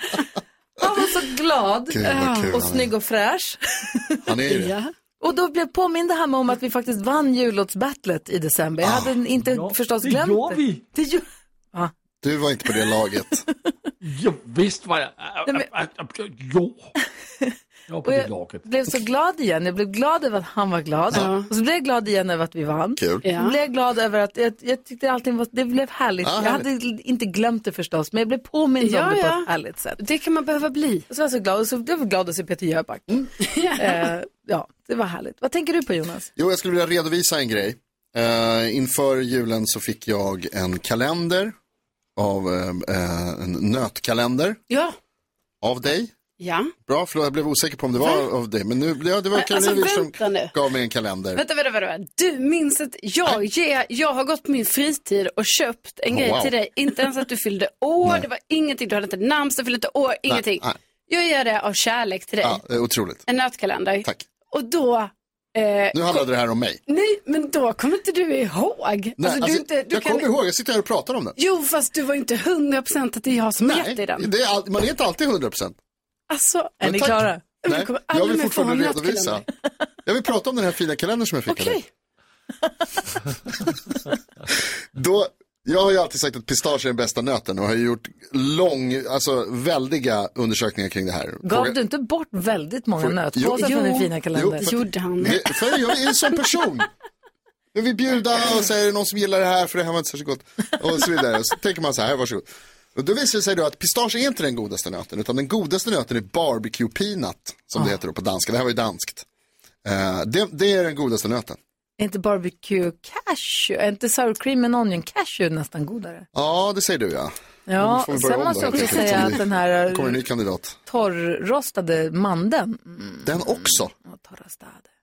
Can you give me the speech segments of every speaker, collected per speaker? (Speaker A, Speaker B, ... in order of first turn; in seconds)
Speaker A: 0.8-4.2, 5.2-11.9, 18.0-30.0, 31.1-36.3, 76.8-77.4, 91.4-94.7, 112.0-116.3, 117.7-120.2, 120.9-124.9
Speaker B: 1.9-2.9, 4.3-4.7, 8.8-9.1, 12.2-13.4, 23.0-23.2, 26.2-26.6, 36.4-41.5, 42.2-44.6, 45.6-46.1, 46.9-51.4, 56.1-56.5, 60.3-60.8, 62.4-63.2, 65.9-66.8, 69.2-71.4, 73.6-75.8, 76.8-79.4, 80.1-81.8, 85.0-91.8, 93.0-93.7, 94.3-96.9, 97.7-109.3, 109.8-111.6, 116.3-120.8, 123.3-123.9
Speaker C: 2.0-2.5, 4.5-4.9, 21.1-21.5, 23.2-23.6, 28.8-31.1, 33.4-34.1, 46.4-46.7, 48.0-48.2, 49.3-50.5, 51.4-62.6, 63.3-66.2, 66.9-70.3, 71.4-74.3, 76.3-77.0, 77.6-79.5, 81.5-81.8, 93.6-94.1, 94.6-95.4
Speaker D: 9.4-10.8, 14.0-16.9, 17.9-18.6